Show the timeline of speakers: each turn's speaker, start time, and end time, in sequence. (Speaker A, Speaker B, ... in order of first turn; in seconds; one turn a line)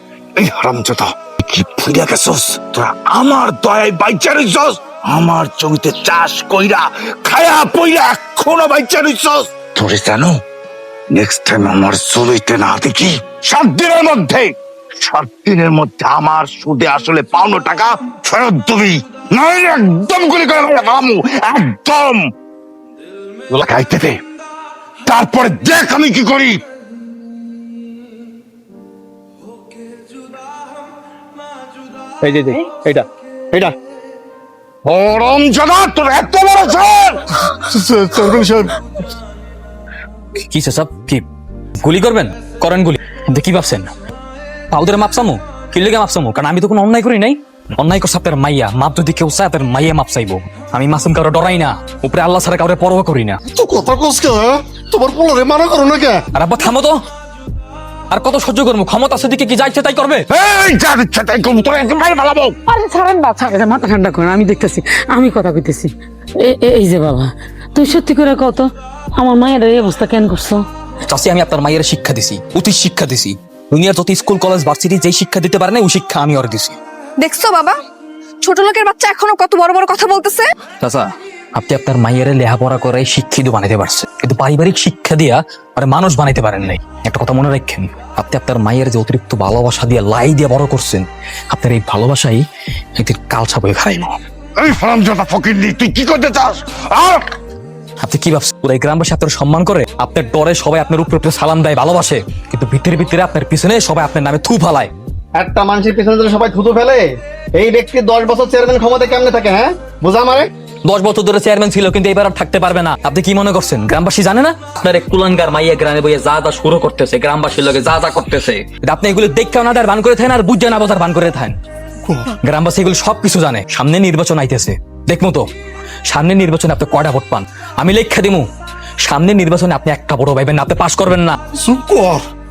Speaker A: 0.3-10.4
Speaker A: 11.1-22.2
Speaker A: 23.5-24.2
Speaker A: 25.0-26.6
Speaker B: 32.2-33.7
Speaker A: 34.8-37.4
Speaker C: 37.7-38.7
Speaker D: 40.5-41.2
Speaker D: 41.8-43.9
Speaker D: 44.7-53.4
Speaker C: 53.5-56.2
Speaker D: 56.3-57.0
Speaker D: 58.1-60.2
Speaker A: 60.3-62.5
Speaker E: 62.7-70.7
Speaker D: 71.0-76.8
Speaker F: 77.2-77.8
Speaker F: 78.4-80.5
Speaker D: 80.8-92.4
Speaker D: 93.0-94.2
Speaker A: 94.5-97.2
Speaker D: 98.0-104.9
Speaker B: 105.3-110.5
Speaker D: 110.8-121.6
Speaker D: 122.4-125.4
Speaker D: 126.1-128.4
Speaker D: 129.0-131.4
Speaker C: 131.7-132.2